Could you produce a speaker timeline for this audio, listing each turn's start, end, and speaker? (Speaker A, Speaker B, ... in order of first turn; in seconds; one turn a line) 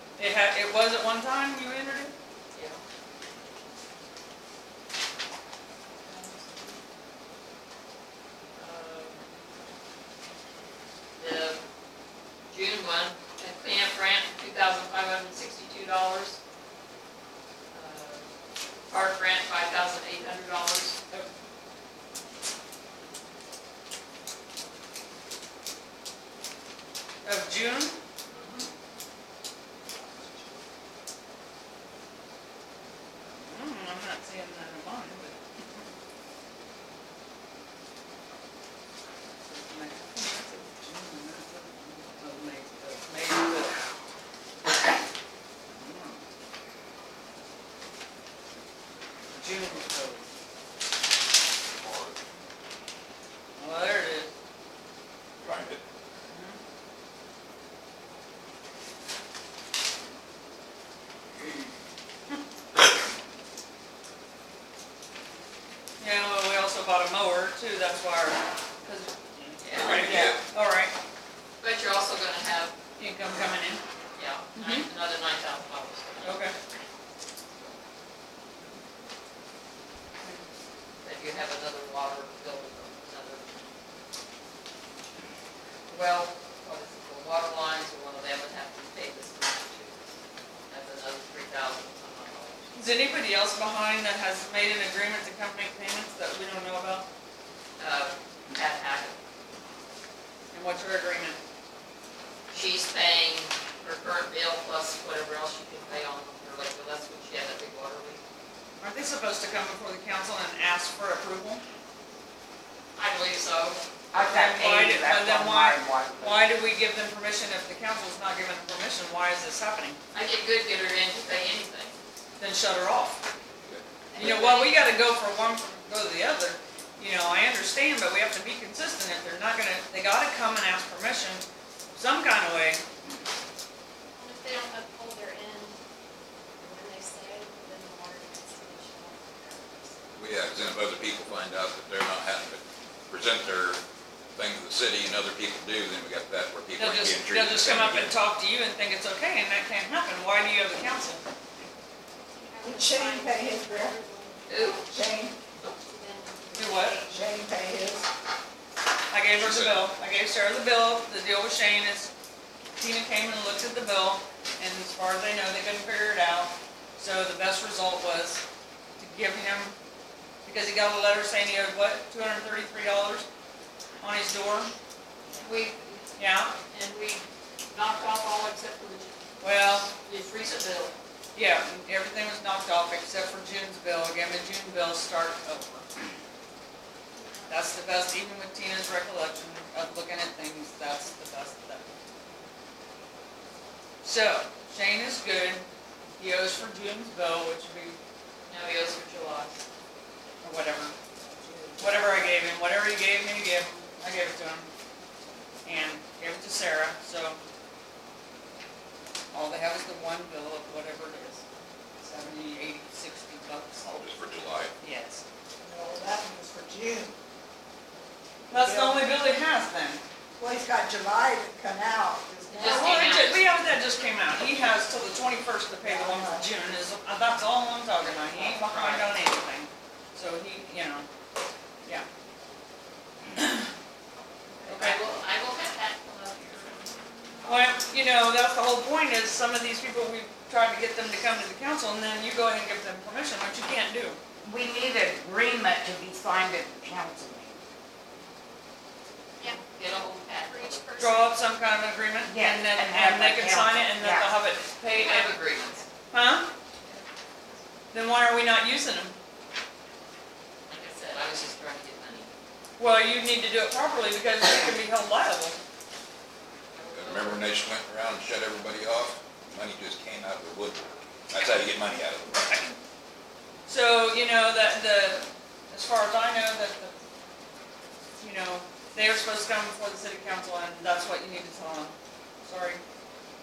Speaker A: 0.2-2.1
Speaker B: 2.5-2.8
Speaker B: 5.9-6.8
Speaker B: 8.6-9.3
Speaker B: 11.2-11.6
Speaker B: 12.5-16.4
Speaker B: 17.7-18.3
Speaker B: 18.9-21.3
Speaker A: 27.2-28.0
Speaker B: 28.3-28.7
Speaker A: 33.3-35.4
Speaker A: 39.4-43.8
Speaker A: 45.7-46.2
Speaker A: 49.3-50.2
Speaker C: 51.8-52.1
Speaker A: 53.6-54.3
Speaker C: 55.4-55.8
Speaker A: 56.3-56.6
Speaker A: 66.0-70.9
Speaker B: 69.6-70.3
Speaker C: 69.7-70.4
Speaker B: 71.6-72.8
Speaker A: 73.0-73.8
Speaker B: 74.2-76.6
Speaker A: 74.5-74.9
Speaker A: 76.2-76.6
Speaker B: 81.0-83.7
Speaker B: 85.9-90.1
Speaker B: 90.7-92.7
Speaker A: 92.8-97.1
Speaker B: 97.8-99.2
Speaker A: 100.5-101.4
Speaker B: 102.5-108.2
Speaker A: 108.8-111.6
Speaker B: 113.0-113.8
Speaker D: 114.1-116.5
Speaker A: 114.2-120.0
Speaker B: 120.1-122.0
Speaker A: 122.4-123.2
Speaker A: 124.2-132.8
Speaker E: 124.2-124.7
Speaker B: 124.2-124.7
Speaker E: 134.2-135.8
Speaker E: 136.6-140.1
Speaker C: 140.2-143.8
Speaker C: 144.3-148.1
Speaker A: 146.8-151.2
Speaker E: 152.3-154.9
Speaker F: 152.6-154.0
Speaker B: 154.5-154.9
Speaker F: 154.8-155.4
Speaker E: 155.7-157.3
Speaker A: 156.5-157.1
Speaker F: 157.1-158.1
Speaker A: 159.1-162.1
Speaker C: 159.4-159.8
Speaker A: 162.8-168.4
Speaker A: 169.0-169.8
Speaker A: 170.4-173.3
Speaker A: 174.0-174.7
Speaker B: 175.3-179.2
Speaker A: 176.2-176.6
Speaker A: 179.4-179.9
Speaker B: 179.8-181.0
Speaker A: 181.3-185.9
Speaker E: 187.2-187.7
Speaker A: 187.5-191.9
Speaker A: 194.0-195.6
Speaker A: 196.2-198.0
Speaker B: 198.5-199.6
Speaker A: 200.4-200.9
Speaker A: 201.8-204.7
Speaker A: 205.6-207.4
Speaker A: 209.3-211.4
Speaker A: 212.0-213.9
Speaker C: 213.8-214.7
Speaker A: 214.8-215.2
Speaker F: 215.6-217.2
Speaker F: 218.5-219.2
Speaker A: 218.5-220.0
Speaker F: 220.4-223.0
Speaker B: 222.5-223.5
Speaker A: 222.6-231.1
Speaker F: 225.8-226.5
Speaker B: 228.4-229.0
Speaker A: 233.4-233.7
Speaker B: 234.5-237.8
Speaker A: 234.7-235.0
Speaker A: 237.4-244.2
Speaker D: 244.4-247.6
Speaker E: 249.4-251.3
Speaker B: 249.4-251.2
Speaker A: 251.0-255.4
Speaker D: 252.3-254.4
Speaker B: 254.9-255.9
Speaker A: 256.1-256.5
Speaker A: 257.9-259.1
Speaker B: 260.7-262.3
Speaker A: 262.8-265.6
Speaker B: 266.8-267.7
Speaker C: 266.9-272.6
Speaker A: 272.4-272.7
Speaker A: 273.7-276.9
Speaker A: 278.2-281.9
Speaker A: 282.4-282.8